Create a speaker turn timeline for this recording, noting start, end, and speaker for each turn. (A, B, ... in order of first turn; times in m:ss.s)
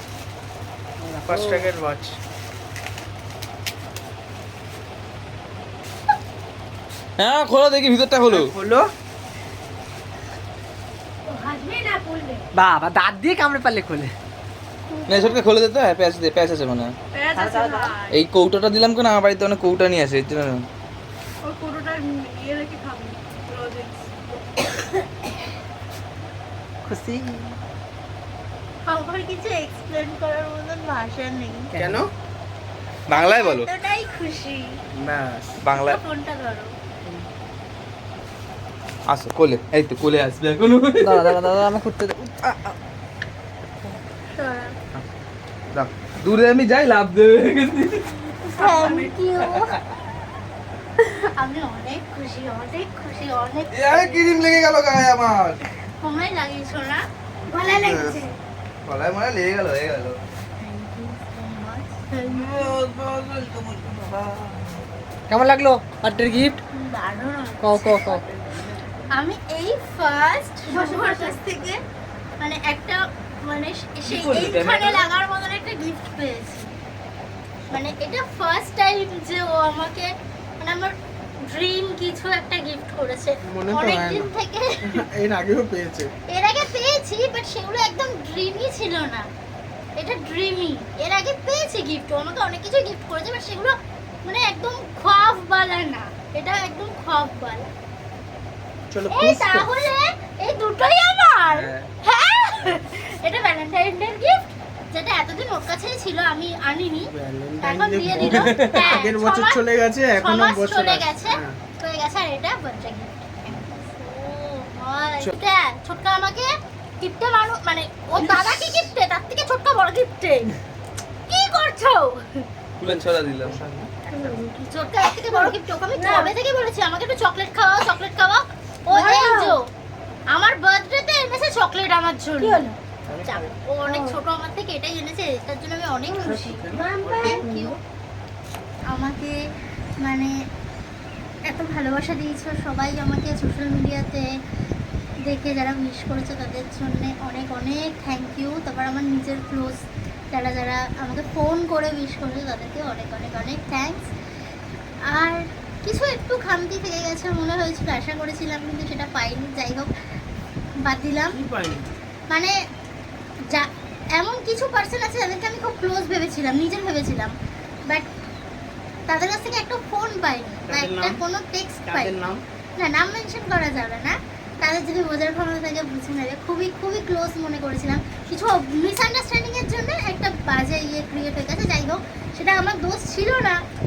0:01.0-0:01.7 A
0:01.3-0:02.2 B
0:07.2-0:08.5 C
0:08.3-0:08.9 B
0:11.3-0:12.5 D
0:12.5-0:14.1 A
0:14.9-0:15.4 D
0:15.1-0:16.9 C
0:17.1-0:18.2 E
0:17.4-0:18.0 A
0:18.1-0:20.6 C
0:21.4-0:24.3 E
0:26.8-0:27.6 A
0:28.8-0:31.7 D
0:31.7-0:32.0 A
0:31.8-0:32.1 B
0:33.1-0:33.7 C
0:33.1-0:34.8 D
0:34.9-0:35.6 B
0:35.6-0:36.0 C
0:35.7-0:36.7 D
0:39.1-0:41.6 C
0:41.0-0:42.8 A
0:44.4-0:44.8 D
0:45.7-0:48.1 C
0:48.4-0:49.8 D
0:48.5-0:49.2 E
0:51.0-0:54.2 D
0:53.7-0:55.6 C
0:56.0-0:58.4 D
0:57.7-0:58.2 C
0:58.9-1:00.2 C
1:00.6-1:02.8 D
1:02.2-1:04.7 C
1:05.3-1:06.6 A
1:06.7-1:08.2 D
1:07.6-1:08.7 A
1:09.1-1:11.8 D
1:10.7-1:11.4 E
1:12.4-1:16.7 D
1:14.1-1:15.1 C
1:17.7-1:25.0 D
1:23.4-1:24.3 B
1:24.8-1:26.1 B
1:26.3-1:29.3 D
1:30.0-1:37.7 D
1:38.9-1:39.9 B
1:39.1-1:49.6 D
1:41.5-1:41.9 C
1:47.1-1:51.6 B
1:48.2-1:48.9 C
1:50.2-2:00.6 D
2:01.3-2:02.5 D
2:02.8-2:03.6 C
2:03.5-2:03.9 B
2:04.1-2:04.6 E
2:04.2-2:09.6 D
2:05.3-2:06.3 E
2:08.9-2:09.6 E
2:10.3-2:12.6 D
2:12.4-2:12.8 E
2:13.2-2:16.6 D
2:13.9-2:14.2 E
2:16.2-2:17.5 B
2:16.2-2:17.8 E
2:17.2-2:17.8 D
2:18.9-2:19.4 D
2:20.0-2:20.3 D
2:21.4-2:24.3 D
2:25.2-2:34.1 D
2:35.1-2:39.9 D
2:40.8-2:41.4 D
2:41.3-2:42.0 B
2:43.5-2:47.3 D
2:49.1-2:52.2 D
2:50.7-2:51.2 B
2:51.9-2:52.4 B
2:52.8-3:03.6 D